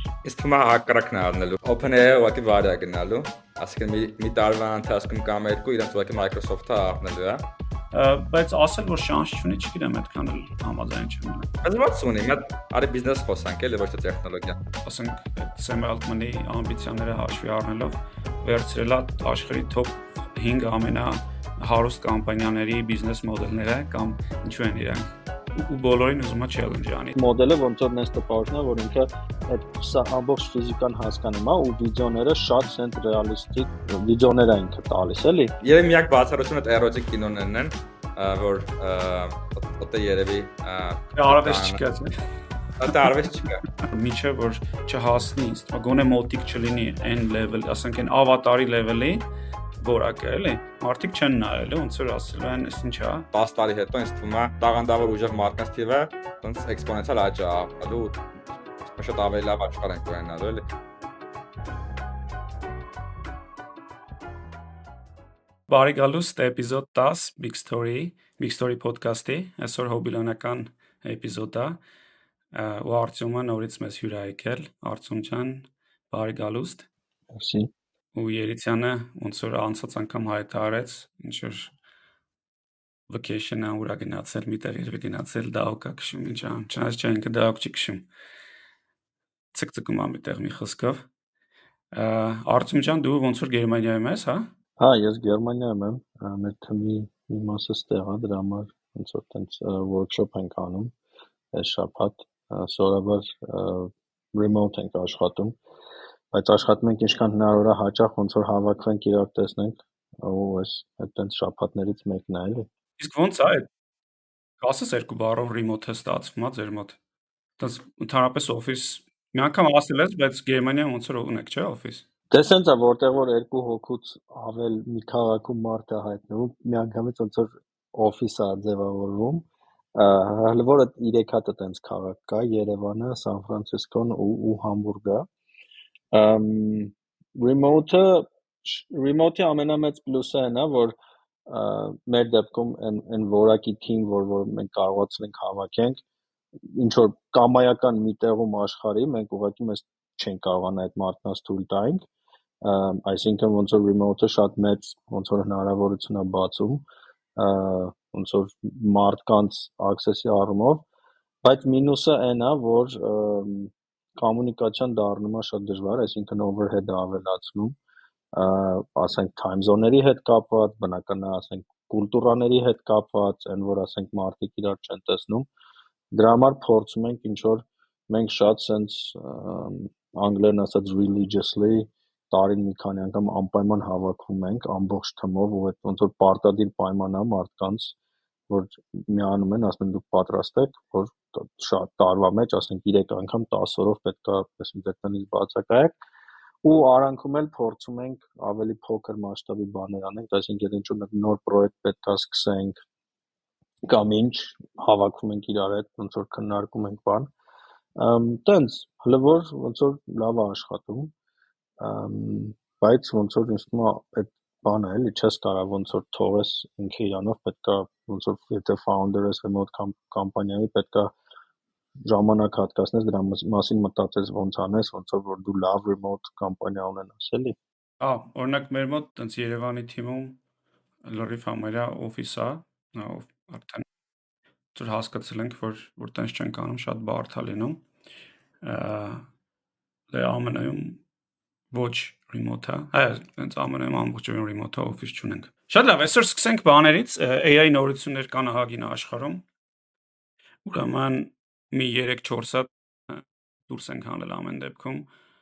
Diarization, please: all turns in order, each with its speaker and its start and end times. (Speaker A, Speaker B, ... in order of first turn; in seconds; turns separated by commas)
Speaker A: 0.2-7.5, Speaker B: 7.9-11.5, Speaker A: 11.6-14.6, Speaker B: 14.8-27.1, Speaker C: 27.2-35.5, Speaker A: 35.6-41.8, Speaker B: 41.1-42.1, Speaker A: 42.8-43.6, Speaker B: 43.8-49.2, Speaker B: 49.8-53.3, Speaker A: 53.3-58.2, Speaker A: 58.9-60.7, Speaker B: 65.7-71.8, Speaker B: 72.5-76.9, Speaker C: 77.3-77.7, Speaker B: 78.2-81.7, Speaker B: 83.1-88.1, Speaker B: 89.5-91.1, Speaker B: 91.9-94.5, Speaker C: 94.8-100.9, Speaker C: 101.5-105.6, Speaker C: 106.3-112.7, Speaker B: 113.0-113.7, Speaker B: 114.6-117.0, Speaker B: 117.6-122.1, Speaker C: 122.3-135.3, Speaker C: 136.1-141.0, Speaker C: 141.5-146.0, Speaker C: 146.8-152.1, Speaker C: 152.6-156.8, Speaker C: 157.4-160.8, Speaker C: 161.4-167.8, Speaker C: 168.3-175.5, Speaker C: 176.1-188.0, Speaker C: 188.5-196.0, Speaker C: 196.6-202.8, Speaker C: 203.9-207.3, Speaker C: 208.0-211.1, Speaker C: 211.8-221.1, Speaker C: 222.1-227.6, Speaker B: 228.0-230.4, Speaker B: 231.1-233.8, Speaker B: 234.8-237.8, Speaker B: 238.6-239.3, Speaker B: 240.1-241.0, Speaker B: 241.7-249.4, Speaker B: 250.7-255.1